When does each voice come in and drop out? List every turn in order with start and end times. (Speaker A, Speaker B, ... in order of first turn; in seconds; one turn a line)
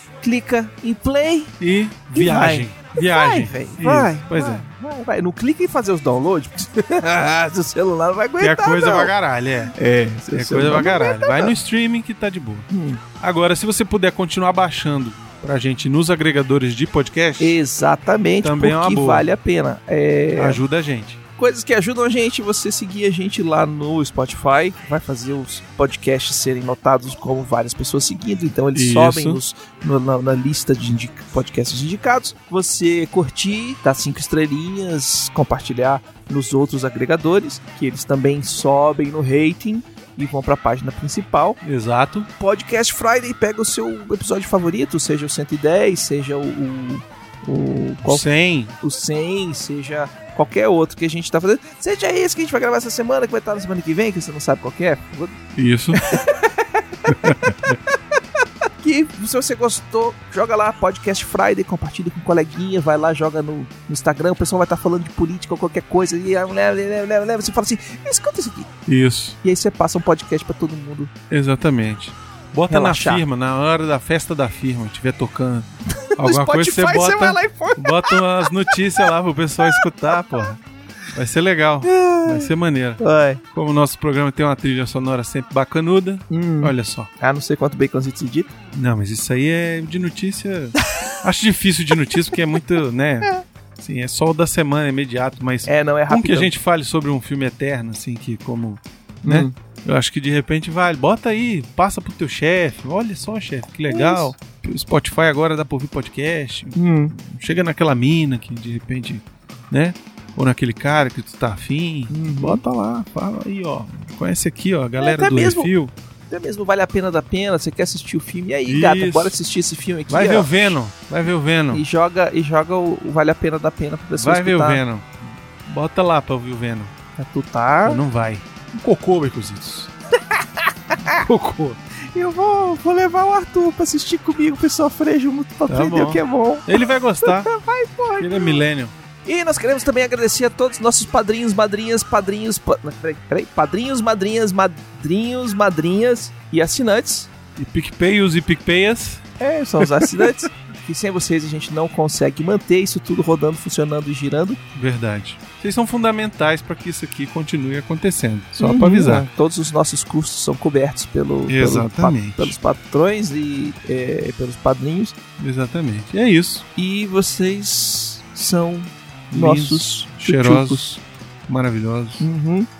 Speaker A: 0.2-1.5
Speaker B: 1.6-4.6
Speaker A: 2.1-9.1
Speaker B: 8.4-9.7
Speaker A: 9.7-11.5
Speaker B: 10.3-12.7
Speaker A: 12.7-13.0
Speaker B: 13.2-17.6
Speaker A: 17.4-20.6
Speaker B: 18.4-19.3
Speaker B: 20.4-21.2
Speaker A: 21.4-41.6
Speaker B: 28.8-29.4
Speaker B: 41.6-42.3
Speaker A: 42.4-48.3
Speaker B: 48.0-48.7
Speaker A: 48.8-55.4
Speaker B: 55.5-56.1
Speaker A: 55.9-58.0
Speaker B: 57.1-57.8
Speaker A: 58.8-68.7
Speaker B: 68.9-69.4
Speaker A: 69.4-71.1
Speaker B: 71.3-75.7
Speaker A: 72.7-73.2
Speaker A: 75.9-79.1
Speaker B: 76.2-80.6
Speaker A: 79.6-80.5
Speaker B: 81.1-87.1
Speaker A: 81.8-83.4
Speaker A: 86.3-88.5
Speaker B: 88.7-115.9
Speaker A: 90.9-91.2
Speaker A: 95.7-96.5
Speaker A: 99.2-99.5
Speaker A: 103.9-104.3
Speaker A: 106.8-107.1
Speaker A: 112.1-112.6
Speaker A: 115.0-115.7
Speaker A: 116.3-120.8
Speaker B: 118.7-119.3
Speaker B: 120.1-121.8
Speaker A: 121.7-124.8
Speaker B: 124.2-126.9
Speaker A: 127.2-128.0
Speaker B: 127.9-129.9
Speaker A: 130.2-131.2
Speaker B: 131.0-131.8
Speaker A: 132.1-138.6
Speaker B: 135.7-137.6
Speaker B: 138.2-138.9
Speaker A: 139.3-147.3
Speaker B: 147.6-149.2
Speaker A: 149.4-154.6
Speaker B: 149.8-150.4
Speaker B: 154.7-159.3
Speaker A: 158.6-165.2
Speaker B: 161.5-162.5
Speaker B: 165.4-166.7
Speaker A: 166.8-170.9
Speaker B: 169.3-172.3
Speaker A: 172.2-172.7